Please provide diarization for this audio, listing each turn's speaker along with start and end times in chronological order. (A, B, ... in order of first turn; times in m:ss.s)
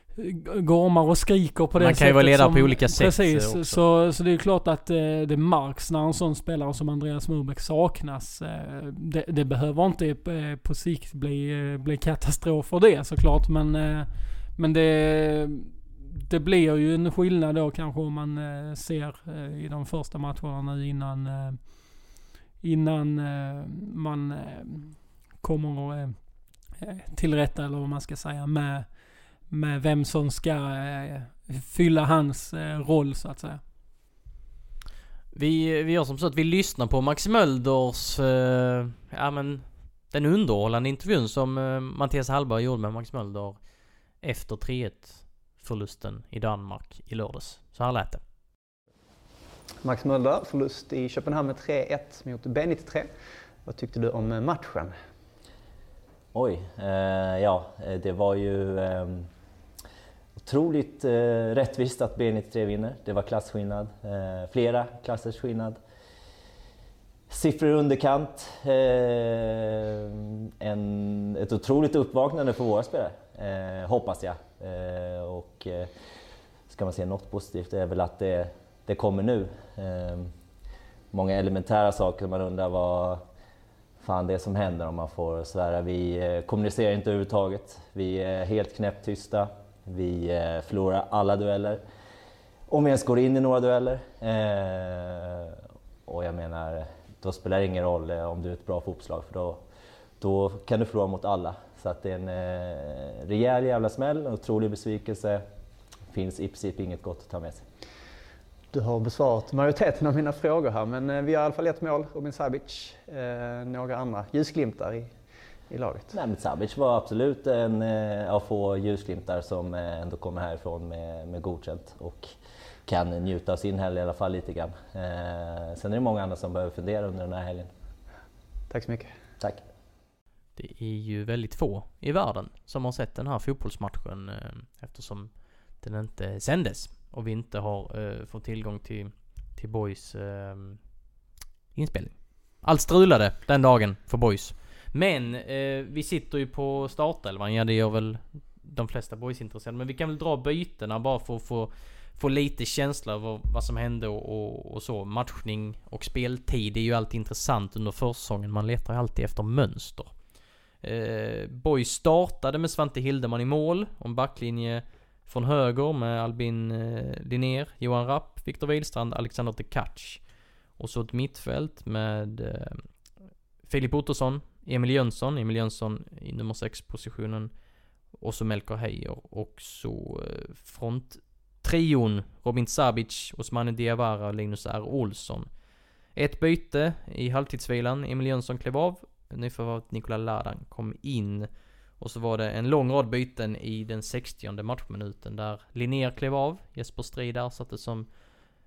0:00.2-0:33.6 A
0:01.8-0:03.8 B
0:35.3-0:43.6 B
0:44.2-0:48.2 B
0:49.8-0:53.1 C
0:53.6-0:55.0 C
0:56.3-0:59.3 D
1:00.4-1:05.8 D
1:07.3-1:15.9 D
1:16.7-1:20.3 D
1:21.1-1:23.2 D
1:24.0-1:31.8 D
1:32.7-1:39.6 D
1:40.2-1:45.4 D
1:46.1-1:47.6 D
1:48.7-1:55.2 C
1:55.7-1:56.1 C
1:56.1-2:02.3 D
2:02.9-2:07.7 D
2:08.7-2:09.1 C
2:10.6-2:20.8 B
2:21.8-2:40.2 B
2:40.8-2:52.9 B
2:53.6-2:57.5 B
2:58.1-3:05.5 B
3:06.2-3:18.1 B